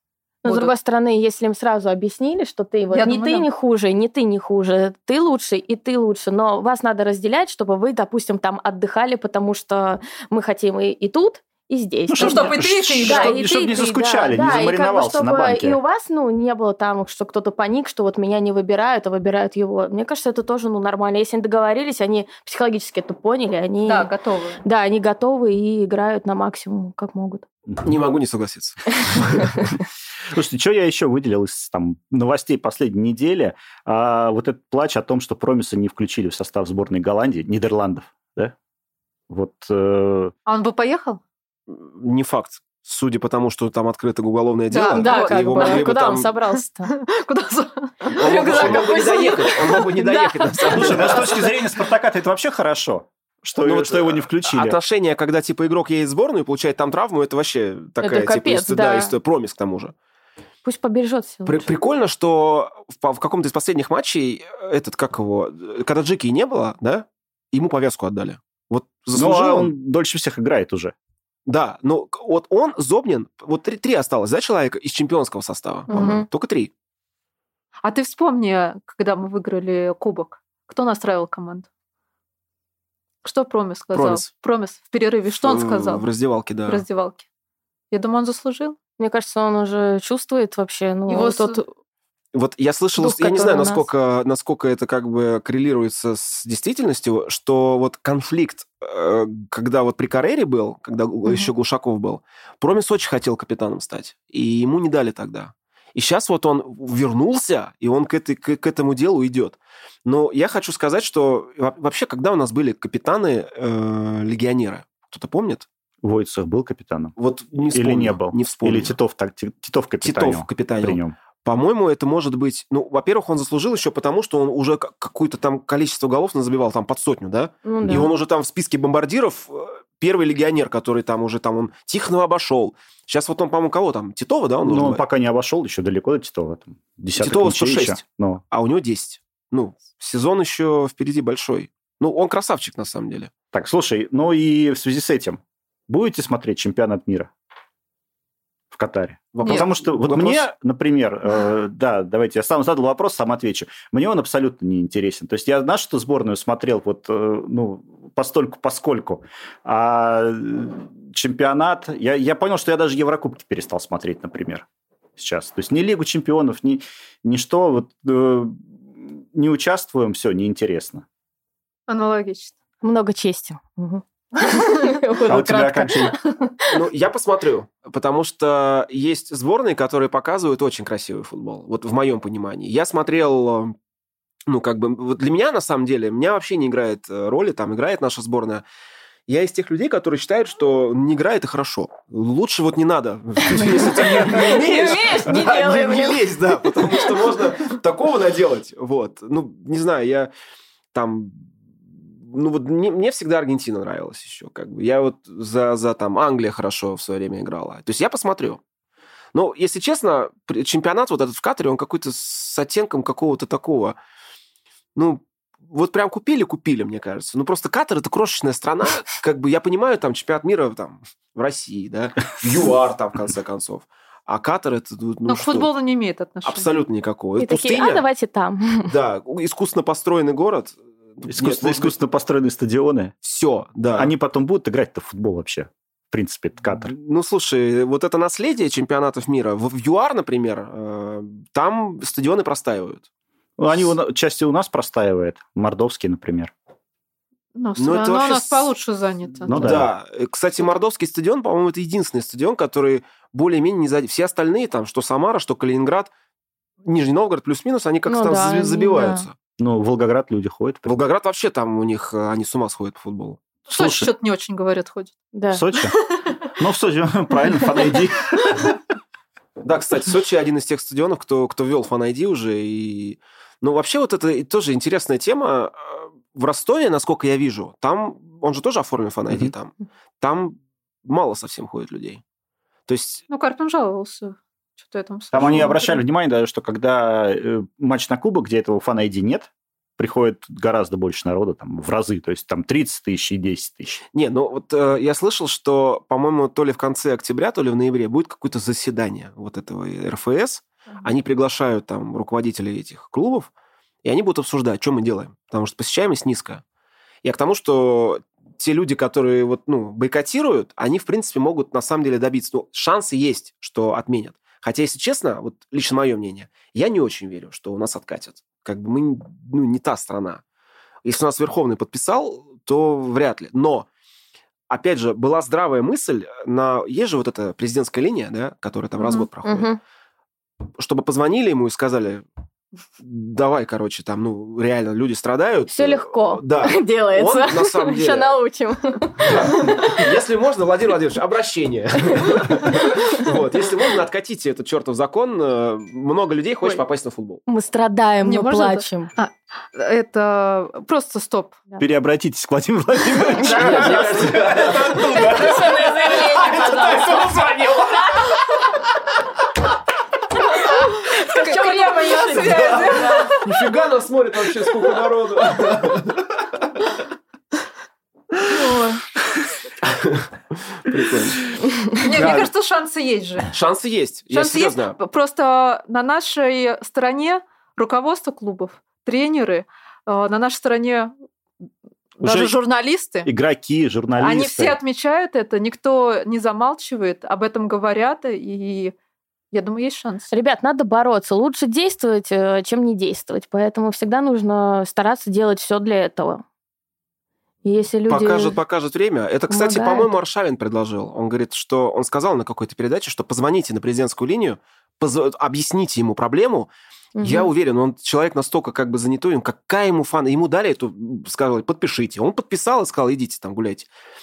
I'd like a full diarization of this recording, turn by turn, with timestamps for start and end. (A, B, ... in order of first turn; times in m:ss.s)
0:00.4-0:24.1 A
0:00.4-0:00.7 B
0:02.9-0:03.5 B
0:12.1-0:15.8 C
0:12.2-0:13.4 B
0:23.9-0:24.6 B
0:24.6-0:27.5 A
0:27.8-0:29.5 D
0:30.3-0:38.6 C
0:39.3-0:40.3 C
0:40.5-0:41.2 B
0:41.7-0:46.3 D
0:44.7-0:45.9 B
0:44.9-0:46.9 A
0:46.6-0:49.8 B
0:48.1-0:51.4 A
0:48.2-0:51.4 D
0:50.7-0:54.8 C
0:53.6-0:59.9 D
0:58.0-0:59.2 A
1:00.6-1:01.7 A
1:01.5-1:09.7 D
1:09.1-1:10.9 C
1:11.5-1:16.7 D
1:15.9-1:16.3 A
1:17.8-1:21.7 B
1:23.2-1:26.1 B
1:23.9-1:24.3 D
1:25.3-1:26.8 D
1:26.7-1:27.3 B
1:27.9-1:28.8 B
1:29.0-1:31.7 A
1:31.1-1:31.6 B
1:32.3-1:55.7 D
1:33.0-1:33.9 A
1:56.0-2:01.2 C
1:57.2-1:59.0 D
2:00.0-2:15.0 D
2:07.6-2:08.1 A
2:14.6-2:18.4 C
2:17.2-2:23.3 D
2:23.5-2:27.3 C
2:28.7-2:44.6 C
2:29.3-2:30.5 D
2:45.2-2:51.0 C
2:51.9-2:52.6 B
2:52.8-2:56.8 A
2:55.3-2:56.2 C
2:56.7-3:03.8 D
3:04.5-3:08.6 D
3:09.3-3:20.3 D
3:13.5-3:17.4 A
3:20.9-3:21.5 D
3:22.1-3:28.6 D
3:29.3-3:34.0 D
3:35.0-3:45.7 D
3:45.3-3:46.7 B
3:46.4-3:48.0 D
3:47.4-3:48.9 A
3:48.9-3:52.0 D
3:51.3-3:53.1 C
3:53.2-3:54.1 D
3:54.0-3:56.9 C
3:56.7-4:03.0 D
4:03.6-4:06.5 C
4:07.6-4:09.7 B
4:07.8-4:08.7 D
4:09.5-4:09.9 C
4:09.5-4:16.1 D
4:16.8-4:19.3 D
4:18.1-4:19.3 A
4:19.6-4:20.9 C
4:20.8-4:23.4 D
4:23.7-4:24.1 C
4:23.7-4:25.2 B
4:25.3-4:25.6 A
4:25.5-4:26.0 C
4:25.8-4:26.3 B
4:26.5-4:28.8 C
4:29.6-4:42.2 D
4:42.9-4:43.2 D
4:43.3-4:46.0 B
4:45.3-4:54.0 C
4:54.1-5:03.5 D
5:04.0-5:06.6 D
5:07.2-5:20.4 D
5:21.0-5:23.9 D
5:24.7-5:29.8 D
5:29.4-5:29.8 A
5:30.8-5:32.3 D
5:33.0-5:38.4 D
5:35.7-5:40.0 A
5:39.2-5:47.4 D
5:47.5-5:49.1 A
5:48.2-5:51.6 B
5:51.8-5:55.6 C
5:53.4-5:58.4 D
5:53.4-5:57.4 A
6:00.5-6:03.4 A
6:00.9-6:03.5 B
6:02.5-6:06.5 D
6:08.5-6:08.9 B
6:08.5-6:08.9 A
6:09.8-6:11.4 D
6:12.0-6:13.5 B
6:12.1-6:12.5 C
6:13.5-6:15.0 D
6:14.3-6:21.1 B
6:22.2-6:23.3 B
6:22.2-6:22.5 C
6:23.2-6:24.8 C
6:24.2-6:28.9 B
6:29.5-6:30.3 B
6:30.3-6:36.4 A
6:37.6-6:38.6 A
6:38.1-6:46.7 D
6:39.5-6:40.1 A
6:47.2-6:47.5 A
6:47.2-6:53.9 D